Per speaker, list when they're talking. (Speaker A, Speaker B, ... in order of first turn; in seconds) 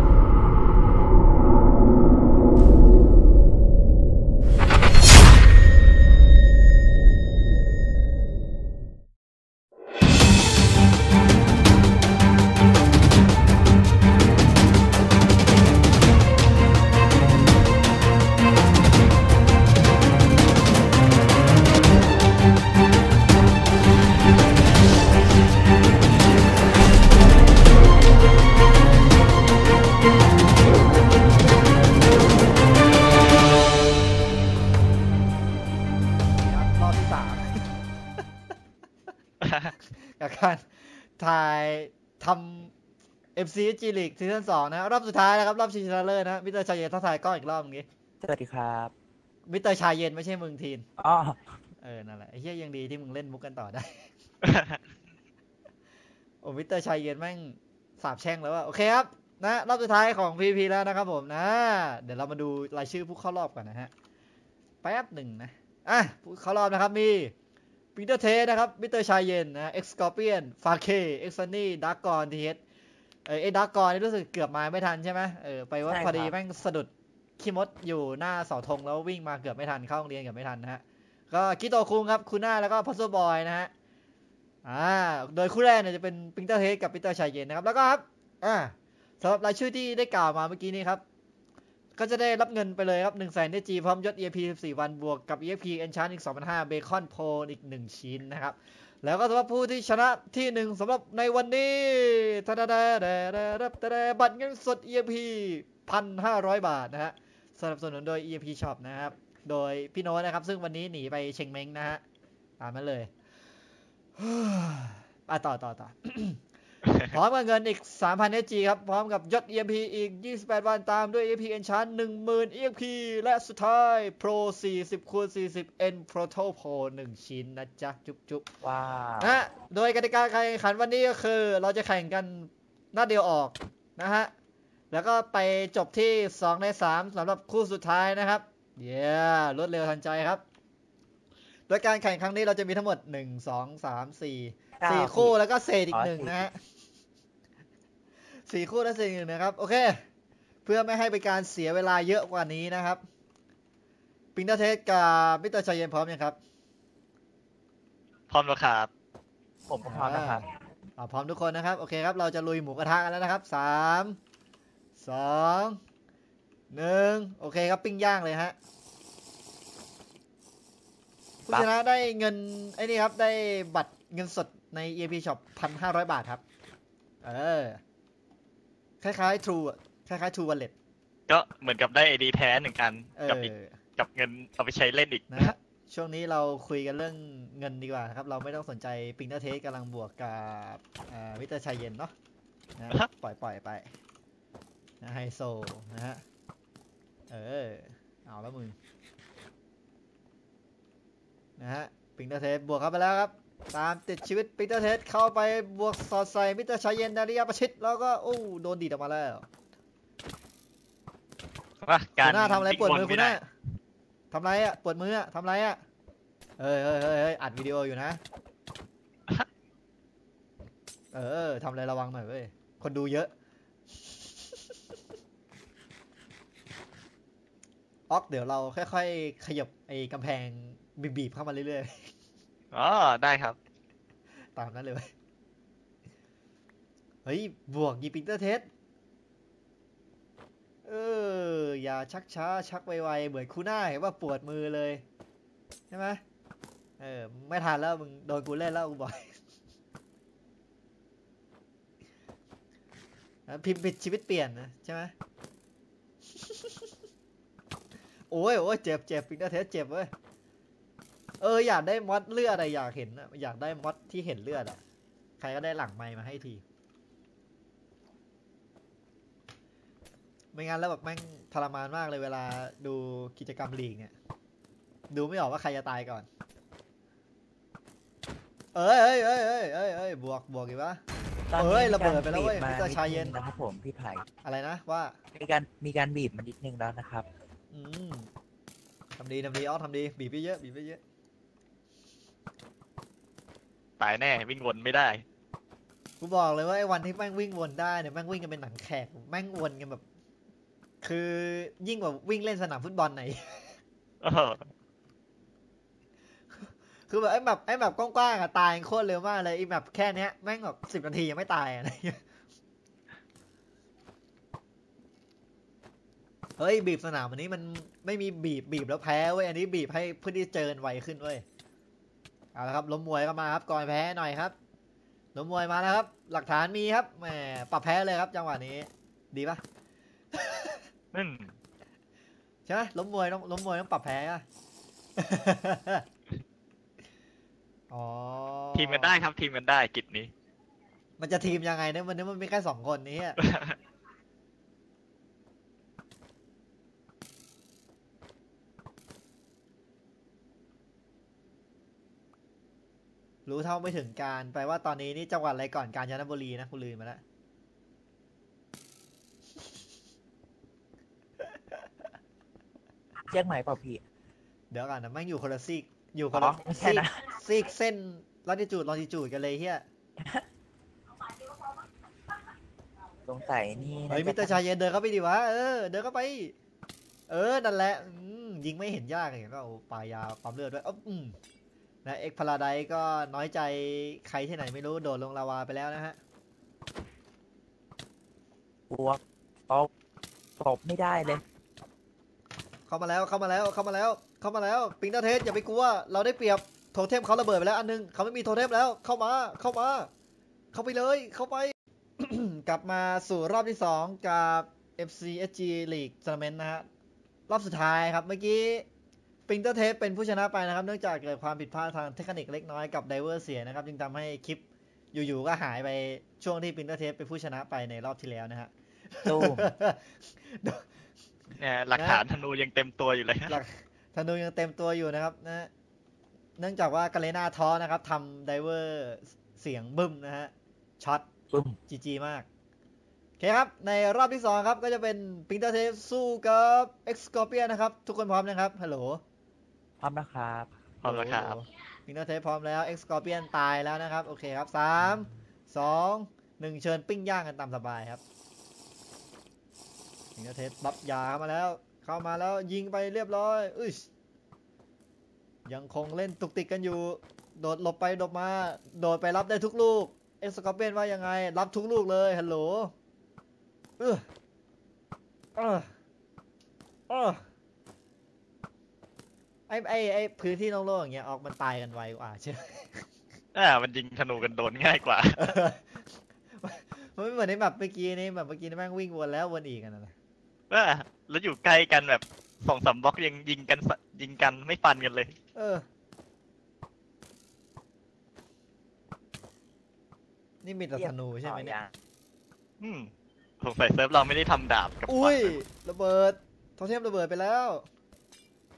Speaker A: 0.3-1.0, 48.2-48.9, 51.0-51.4, 75.9-76.3, 128.6-129.4, 144.8-145.3, 145.9-146.4, 159.7-160.5, 281.5-284.2, 285.3-287.2, 363.3-364.0, 366.3-367.2, 373.2-374.6, 388.9-389.9, 390.6-391.4, 419.2-419.7, 431.5-431.8, 440.0-440.7, 490.9-491.9
Speaker B: 36.4-37.7, 40.0-42.7, 43.4-47.9, 49.5-50.8, 51.8-54.1, 56.4-63.9, 64.8-67.3, 68.0-72.6, 73.2-83.7, 84.6-91.0, 92.0-112.0, 112.6-113.1, 114.2-116.4, 117.0-128.5, 129.2-134.3, 134.9-140.4, 141.7-146.6, 148.5-150.0, 150.6-153.0, 154.3-156.4, 159.8-160.4, 161.0-164.2, 165.0-165.8, 166.7-168.5, 171.4-176.4, 177.2-177.8, 179.0-180.7, 183.2-183.8, 185.3-192.1, 192.8-193.9, 195.0-196.2, 197.3-198.8, 201.6-209.5, 212.2-213.5, 214.3-215.8, 216.6-218.2, 221.1-223.3, 224.0-224.6, 228.1-232.1, 234.6-235.1, 237.2-238.7, 240.8-245.0, 245.9-246.2, 247.0-249.3, 253.5-255.1, 256.4-256.9, 258.3-260.1, 261.4-264.8, 265.4-266.6, 270.5-274.1, 275.1-276.3, 278.7-281.0, 281.6-283.4, 284.4-285.1, 287.7-288.3, 289.2-291.0, 296.2-300.0, 301.0-303.7, 306.6-312.2, 316.6-321.4, 322.5-324.5, 325.3-329.6, 330.3-330.8, 332.6-334.4, 335.2-336.0, 337.9-339.2, 341.2-343.4, 353.4-357.2, 364.7-369.8, 374.1-376.5, 377.3-381.3, 382.0-386.2, 392.9-400.1, 400.7-406.9, 407.5-408.9, 409.5-420.8, 421.9-422.2, 423.5-425.7, 426.6-431.3, 431.9-432.5, 433.4-439.2, 441.0-448.2, 450.4-454.1, 455.6-462.9, 464.0-464.2, 465.6-465.9, 467.1-467.4, 469.7-473.1, 475.4-476.1, 476.6-480.1, 485.5-485.8, 490.6-491.8, 495.1-497.8
Speaker C: 39.4-39.7, 54.4-54.8, 116.8-117.1, 158.3-158.9, 181.3-185.5, 211.8-213.4, 232.7-233.6, 294.0-295.2, 304.2-304.7, 331.1-331.5, 338.7-340.3, 343.4-343.8, 421.6-423.6, 441.0-441.6, 473.5-475.4, 480.7-485.3, 492.8-495.6